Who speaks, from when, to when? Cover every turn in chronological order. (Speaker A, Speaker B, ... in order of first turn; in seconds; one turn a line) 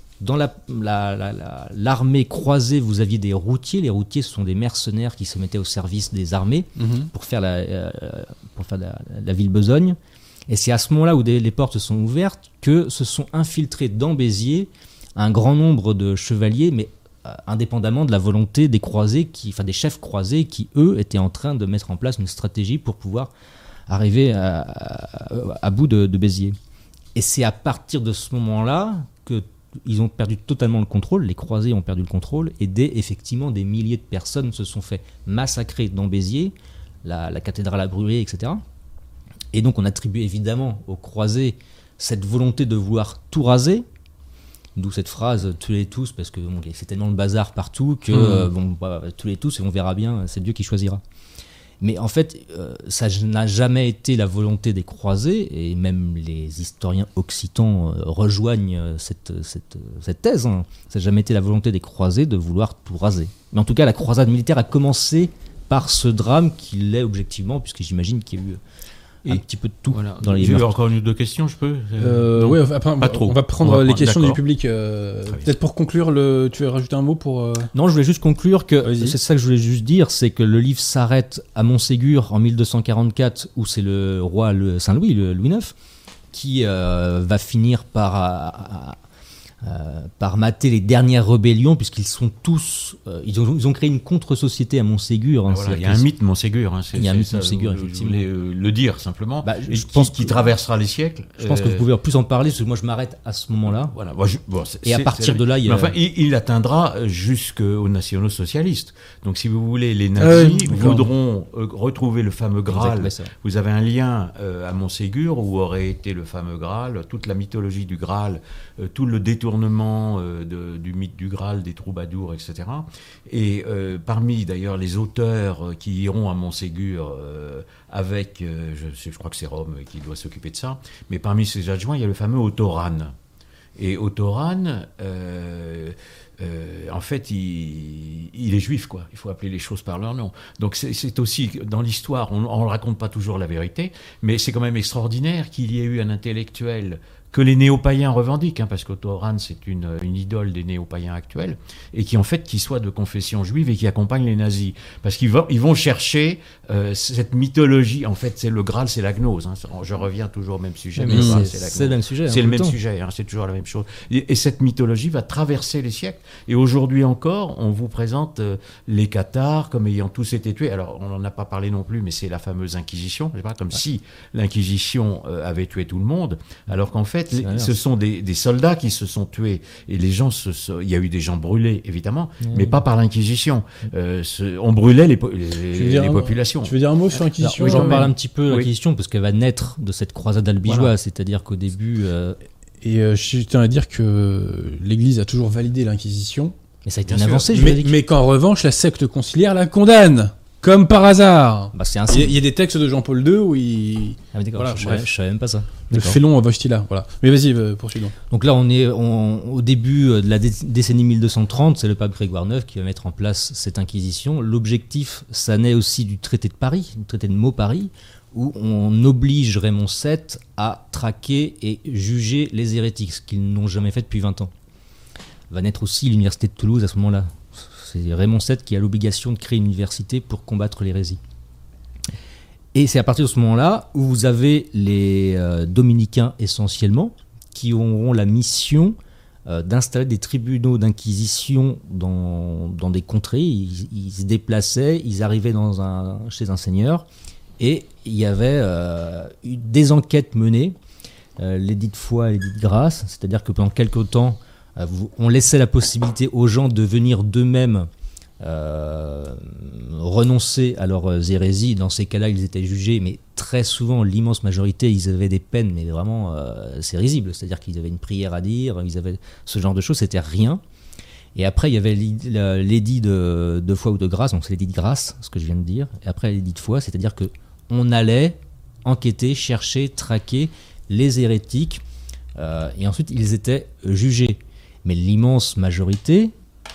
Speaker A: 0.2-10.0
Speaker B: 6.8-7.1
Speaker A: 10.5-23.3
Speaker A: 23.9-26.6
Speaker A: 27.1-38.6
Speaker A: 39.5-43.9
Speaker A: 44.8-51.0
Speaker B: 48.1-48.5
Speaker A: 51.8-68.6
Speaker A: 69.2-70.7
Speaker C: 69.3-74.4
Speaker B: 72.0-77.7
Speaker A: 77.7-85.8
Speaker B: 78.8-79.2
Speaker A: 86.3-89.0
Speaker A: 89.6-96.1
Speaker C: 95.5-101.8
Speaker A: 97.0-98.2
Speaker A: 99.4-100.5
Speaker A: 101.4-104.0
Speaker C: 103.9-133.1
Speaker A: 104.8-106.0
Speaker B: 110.2-111.1
Speaker A: 112.7-113.3
Speaker C: 133.8-186.8
Speaker A: 160.9-162.8
Speaker B: 161.1-161.4
Speaker A: 177.4-177.7
Speaker A: 182.4-182.8
Speaker B: 185.7-188.1
Speaker A: 187.4-192.4
Speaker C: 187.6-188.7
Speaker C: 190.6-190.9
Speaker B: 192.8-196.6
Speaker A: 196.8-198.0
Speaker C: 197.1-197.5
Speaker B: 197.5-205.1
Speaker A: 201.7-202.4
Speaker A: 204.3-206.2
Speaker B: 205.9-208.2
Speaker A: 208.3-224.5
Speaker A: 225.5-231.2
Speaker A: 232.7-239.0
Speaker A: 239.5-247.1
Speaker A: 247.6-250.8
Speaker A: 251.4-257.9
Speaker A: 258.4-270.6
Speaker A: 271.4-281.8
Speaker A: 282.4-286.3